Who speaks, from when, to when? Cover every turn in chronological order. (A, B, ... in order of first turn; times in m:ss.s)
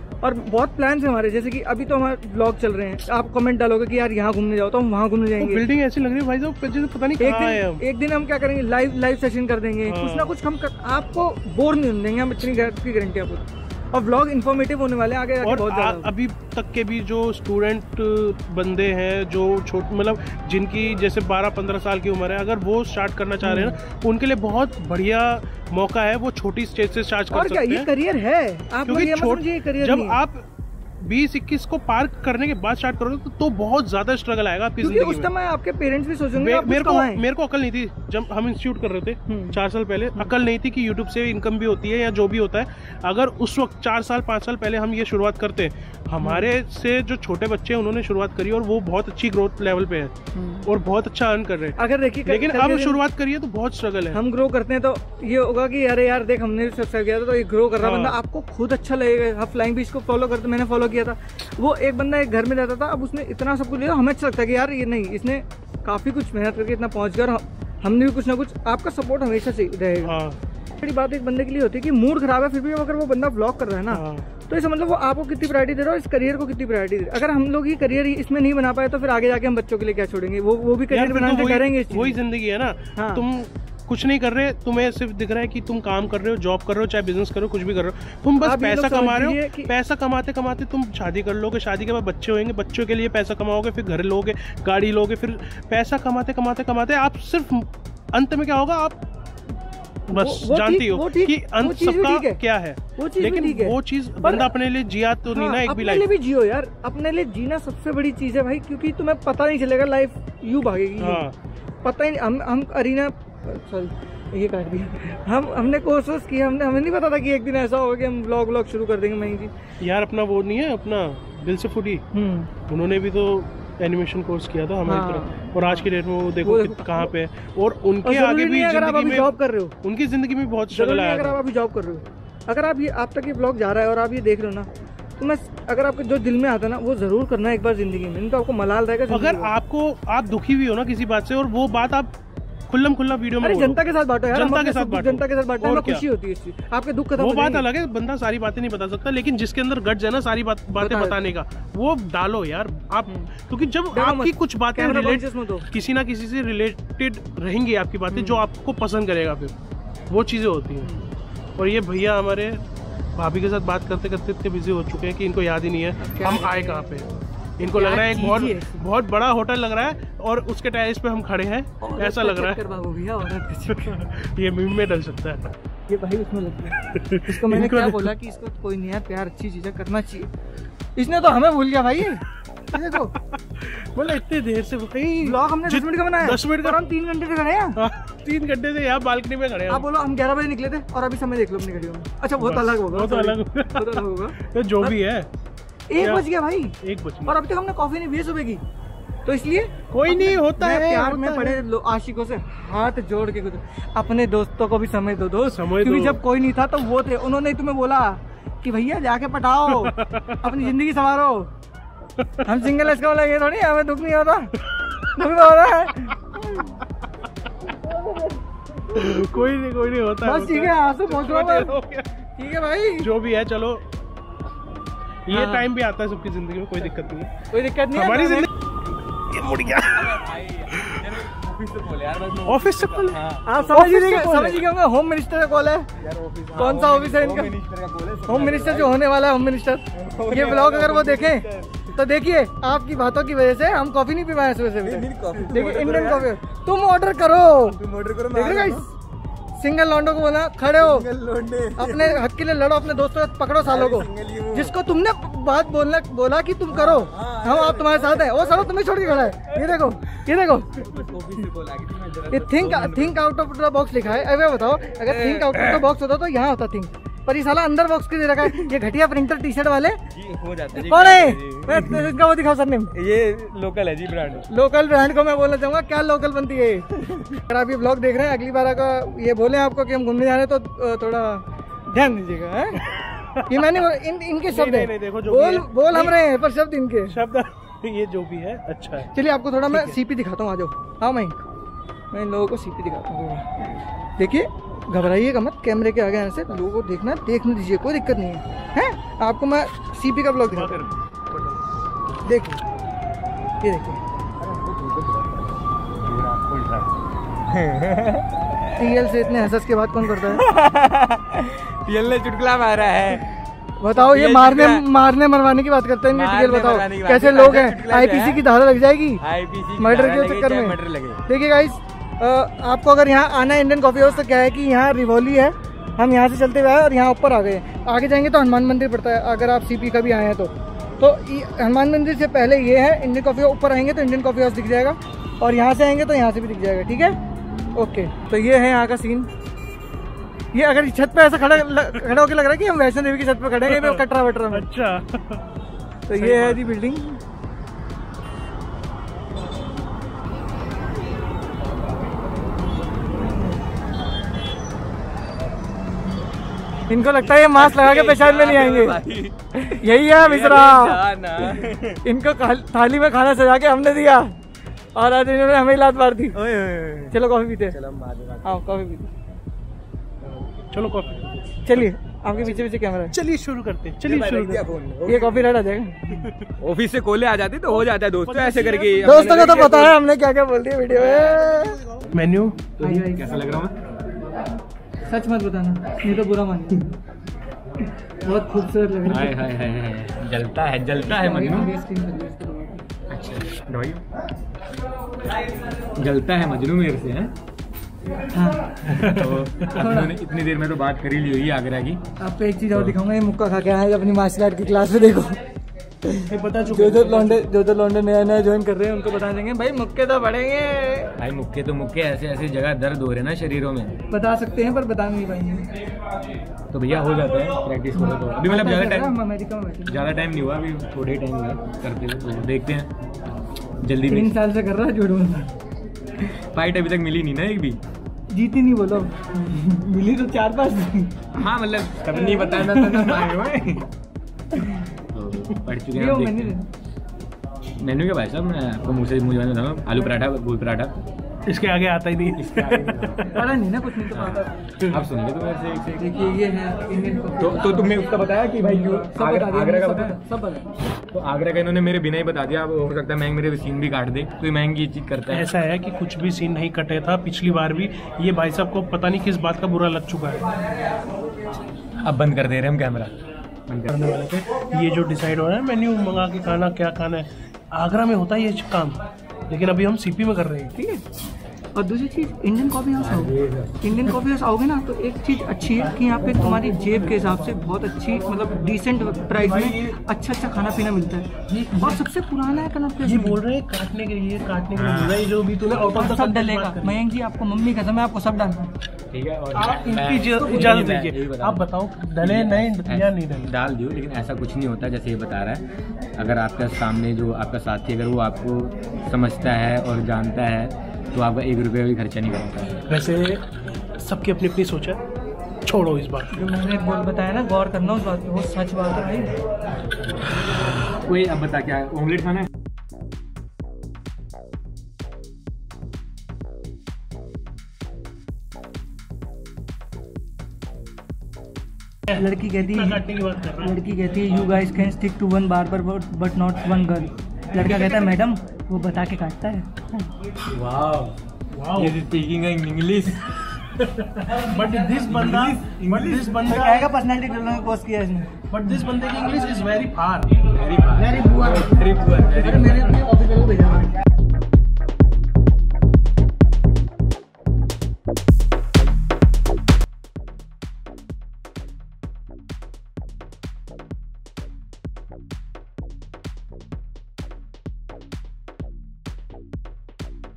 0:00.2-0:05.6 A
0:05.4-0:07.8 B
0:07.2-0:16.1 A
0:09.9-0:10.3 B
0:15.4-0:27.9 B
0:23.4-0:23.8 A
0:27.3-0:30.2 A
0:28.9-0:30.4 B
0:31.0-0:35.3 B
0:34.8-0:37.2 A
0:36.3-0:54.2 B
0:39.3-0:39.6 A
0:46.2-0:46.5 A
0:50.3-0:50.6 A
0:51.8-0:53.0 A
0:54.1-1:10.1 A
0:57.8-0:58.2 B
1:10.0-1:10.4 B
1:10.8-1:22.2 A
1:13.9-1:14.2 B
1:20.9-1:39.0 B
1:22.9-1:23.2 A
1:28.4-1:29.7 A
1:40.1-1:46.1 B
1:40.1-1:42.4 A
1:43.0-1:44.5 A
1:45.3-1:51.3 A
1:51.0-1:51.3 B
1:51.8-1:59.5 A
1:59.8-2:02.0 B
2:02.1-2:02.5 A
2:02.7-2:11.4 B
2:04.8-2:05.9 A
2:06.4-2:07.1 A
2:08.0-2:09.7 A
2:10.7-2:19.5 A
2:19.1-2:22.1 B
2:22.7-2:26.0 B
2:23.4-2:27.6 A
2:27.2-2:39.5 B
2:30.8-2:31.3 A
2:33.9-2:35.7 A
2:38.1-2:38.4 A
2:40.1-2:40.9 B
2:41.6-2:42.6 B
2:43.2-2:47.1 B
2:46.0-2:48.8 A
2:47.6-2:52.6 B
2:51.8-2:54.0 A
2:53.7-2:55.5 B
2:55.9-3:00.3 A
2:56.9-2:58.1 B
3:01.0-3:03.1 A
3:02.9-3:06.8 B
3:05.2-3:07.8 A
3:07.8-3:09.8 B
3:09.7-3:15.0 A
3:12.4-3:15.3 B
3:15.9-3:16.7 A
3:16.0-3:16.2 B
3:16.8-3:17.4 B
3:17.2-3:18.6 A
3:19.2-3:31.5 A
3:19.9-3:21.6 B
3:25.5-3:26.2 B
3:29.7-3:30.5 B
3:32.2-3:32.4 B
3:32.4-3:34.5 A
3:35.1-3:36.7 A
3:37.7-3:39.3 A
3:38.9-3:42.1 B
3:40.2-3:41.7 A
3:42.4-3:43.1 A
3:43.0-3:43.8 B
3:45.3-3:47.3 B
3:45.3-3:45.7 A
3:47.5-3:48.5 A
3:47.9-3:48.5 B
3:49.3-3:51.1 B
3:49.9-3:53.8 C
3:52.4-3:53.2 B
3:53.4-3:55.9 A
3:53.7-3:54.6 B
3:56.0-3:59.0 C
3:56.6-3:57.5 A
3:58.3-4:07.8 A
3:59.9-4:01.8 C
4:00.4-4:00.9 B
4:04.8-4:06.3 C
4:07.7-4:08.9 C
4:08.3-4:08.9 A
4:09.6-4:11.0 A
4:10.8-4:12.2 C
4:11.7-4:20.9 A
4:13.6-4:14.8 C
4:16.7-4:19.9 C
4:20.7-4:23.2 C
4:22.3-4:30.0 A
4:25.0-4:25.9 C
4:28.4-4:28.7 C
4:30.1-4:32.1 C
4:30.8-4:32.9 A
4:32.9-4:34.5 C
4:34.5-4:42.9 A
4:37.0-4:37.3 C
4:43.2-4:43.8 B
4:43.4-4:47.2 A
4:44.5-4:46.2 B
4:47.1-4:49.1 B
4:49.1-4:51.4 A
4:49.7-4:50.0 B
4:52.1-4:53.6 A
4:54.2-5:00.8 A
5:00.5-5:00.9 C
5:02.2-5:02.6 A
5:03.6-5:04.0 A
5:04.4-5:06.9 C
5:07.5-5:08.9 C
5:08.8-5:10.4 A
5:10.1-5:13.4 C
5:13.8-5:19.2 A
5:13.9-5:14.8 C
5:16.1-5:18.4 C
5:19.2-5:21.2 C
5:19.8-5:37.2 A
5:37.7-5:39.3 A
5:40.5-5:44.6 A
5:43.6-5:45.4 B
5:46.1-5:47.2 A
5:46.2-5:46.6 B
5:56.9-5:59.0 A
5:57.2-6:02.0 C
5:59.5-6:04.4 A
6:04.9-6:06.4 A
6:06.3-6:08.6 C
6:07.1-6:07.8 A
6:08.4-6:09.1 A
6:10.7-6:11.8 B
6:11.6-6:13.1 A
6:13.1-6:14.7 B
6:14.0-6:15.5 C
6:15.0-6:16.3 A
6:16.2-6:16.5 B
6:16.6-6:19.9 C
6:18.2-6:19.9 B
6:19.0-6:21.8 A
6:21.2-6:22.6 B
6:22.8-6:23.7 C
6:22.8-6:23.4 A
6:25.1-6:26.9 A
6:28.2-6:29.4 A
6:29.1-6:31.7 C
6:31.1-6:32.9 A
6:33.1-6:34.0 C
6:35.8-6:37.3 C
6:38.3-6:40.1 A
6:39.0-6:42.0 C
6:42.2-6:45.4 A
6:46.0-6:51.1 A
6:46.3-6:47.4 B
6:51.2-6:54.0 C
6:54.1-6:55.8 A
6:56.7-6:59.2 C
6:58.0-7:00.1 A
6:59.8-7:02.9 C
7:03.8-7:04.3 C
7:04.1-7:05.5 A
7:06.5-7:07.8 C
7:08.3-7:11.3 A
7:11.3-7:13.9 C
7:12.1-7:13.8 A
7:14.5-7:14.9 A
7:15.1-7:16.6 C
7:15.9-7:16.7 A
7:17.8-7:20.9 C
7:21.5-7:23.1 B
7:22.4-7:23.4 C
7:23.2-7:24.6 A
7:24.1-7:26.2 C
7:24.8-7:25.0 B
7:26.0-7:28.1 A
7:27.4-7:30.2 C
7:28.7-7:30.7 A
7:31.1-7:35.5 C
7:35.3-7:40.8 B
7:42.0-7:43.1 C
7:43.6-7:44.0 C
7:43.9-7:50.7 B
7:50.7-7:51.0 A
7:51.7-8:03.4 A
7:53.0-7:53.8 C
7:59.4-7:59.9 B
8:01.5-8:02.0 B
8:03.0-8:07.0 B
8:04.7-8:05.3 C
8:06.0-8:08.7 A
8:09.1-8:11.7 C
8:09.5-8:10.9 A
8:09.8-8:13.5 B
8:12.2-8:22.8 C
8:22.9-8:23.4 B
8:24.0-8:25.0 B
8:25.6-8:26.3 B
8:26.3-8:29.4 A
8:31.0-8:32.5 C
8:42.1-8:43.8 B
8:42.1-8:43.0 A
8:43.6-8:49.9 A
8:47.6-8:48.0 B
8:50.5-8:51.2 C
8:51.5-8:52.0 B
8:51.7-8:53.2 C
8:53.8-8:56.9 B
8:54.4-8:58.4 A
8:55.1-8:56.2 C
8:58.5-9:00.4 B
9:00.5-9:03.0 C
9:01.0-9:03.9 A